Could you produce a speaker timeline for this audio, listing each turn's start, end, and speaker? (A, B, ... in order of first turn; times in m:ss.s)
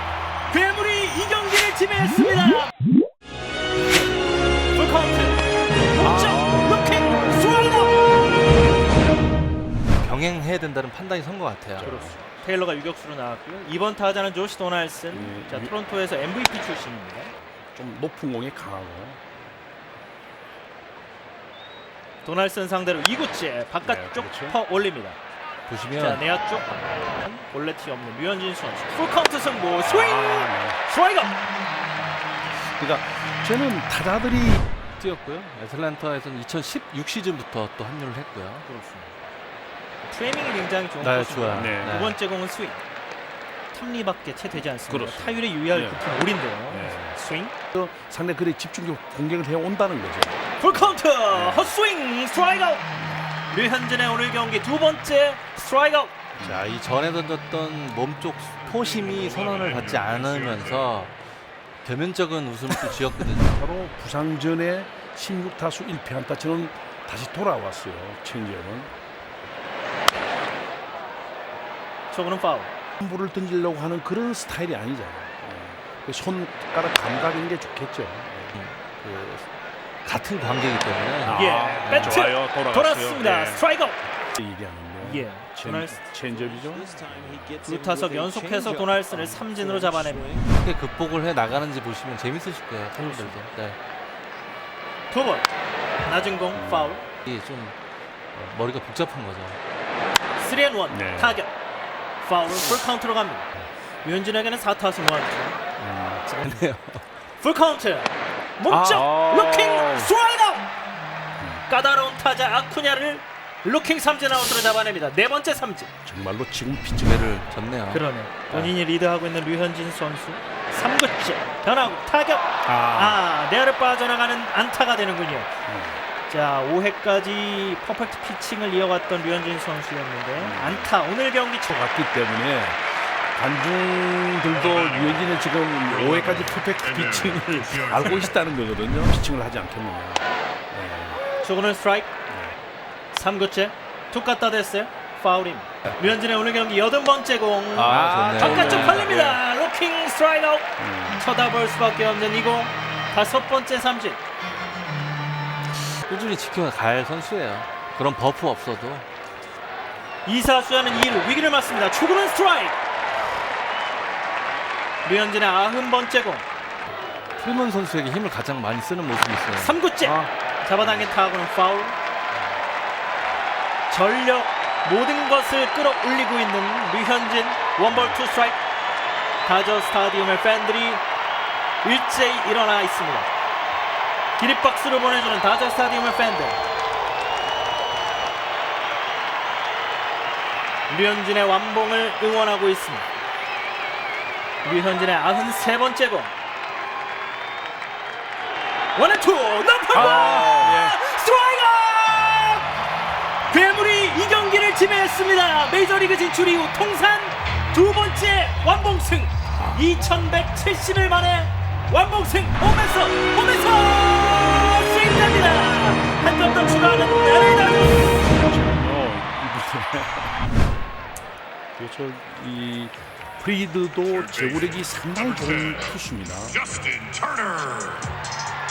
0:00.5-0:02.7 A
0:04.7-0:08.4 A
0:06.0-0:07.4 B
0:10.0-0:11.9 C
0:11.8-0:12.2 B
0:11.8-0:17.3 A
0:15.1-0:15.7 B
0:17.8-0:19.2 B
0:22.2-0:25.2 A
0:23.8-0:24.6 B
0:25.7-0:26.2 C
0:26.0-0:31.4 A
0:29.8-0:30.8 B
0:32.8-0:34.6 B
0:35.0-0:38.7 C
0:38.6-0:39.2 A
0:40.0-0:42.8 A
0:41.0-0:42.2 C
0:41.5-0:42.0 B
0:43.7-0:47.5 A
0:44.8-0:46.0 B
0:46.7-0:47.2 B
0:47.7-0:51.7 B
0:50.6-0:52.8 A
0:53.5-0:56.1 A
0:56.4-0:56.7 B
0:56.4-1:01.2 C
1:01.8-1:03.5 C
1:02.9-1:08.9 B
1:12.1-1:12.7 A
1:13.0-1:18.6 B
1:18.6-1:19.5 C
1:20.0-1:22.2 C
1:21.2-1:23.7 B
1:21.3-1:24.0 A
1:24.3-1:27.6 B
1:25.0-1:26.0 A
1:26.3-1:33.8 C
1:27.6-1:30.4 A
1:33.0-1:33.3 A
1:35.1-1:35.5 A
1:36.0-1:37.0 A
1:36.5-1:37.0 B
1:37.2-1:37.8 C
1:38.3-1:39.6 C
1:40.4-1:41.5 A
1:40.9-1:41.4 B
1:42.2-1:43.5 A
1:44.0-1:45.6 A
1:45.8-1:46.6 B
1:46.2-1:47.0 C
1:47.4-1:50.7 A
1:48.7-1:50.2 B
1:51.4-1:51.6 B
1:51.7-1:55.9 A
1:56.0-1:57.3 B
1:57.0-1:58.7 C
1:57.9-2:05.5 A
2:02.6-2:03.2 B
2:05.7-2:06.0 B
2:06.3-2:11.8 A
2:10.4-2:10.9 B
2:11.7-2:12.8 B
2:13.4-2:21.2 B
2:21.4-2:22.1 A
2:22.3-2:22.6 B
2:23.1-2:34.2 A
2:27.8-2:29.4 C
2:27.8-2:29.3 B
2:30.8-2:31.2 B
2:36.1-2:39.1 C
2:40.2-2:42.8 A
2:45.0-2:46.4 A
2:47.4-2:49.8 C
2:49.6-2:52.0 A
2:50.0-2:50.3 B
2:50.8-2:51.1 B
2:53.9-2:58.6 A
2:57.9-2:58.2 B
2:59.4-3:01.0 A
3:01.8-3:03.3 A
3:04.4-3:06.6 A
3:10.9-3:13.1 A
3:14.6-3:16.3 A
3:19.0-3:22.6 A
3:19.9-3:21.0 B
3:23.5-3:38.3 A
3:38.3-3:40.3 B
3:41.8-3:47.0 B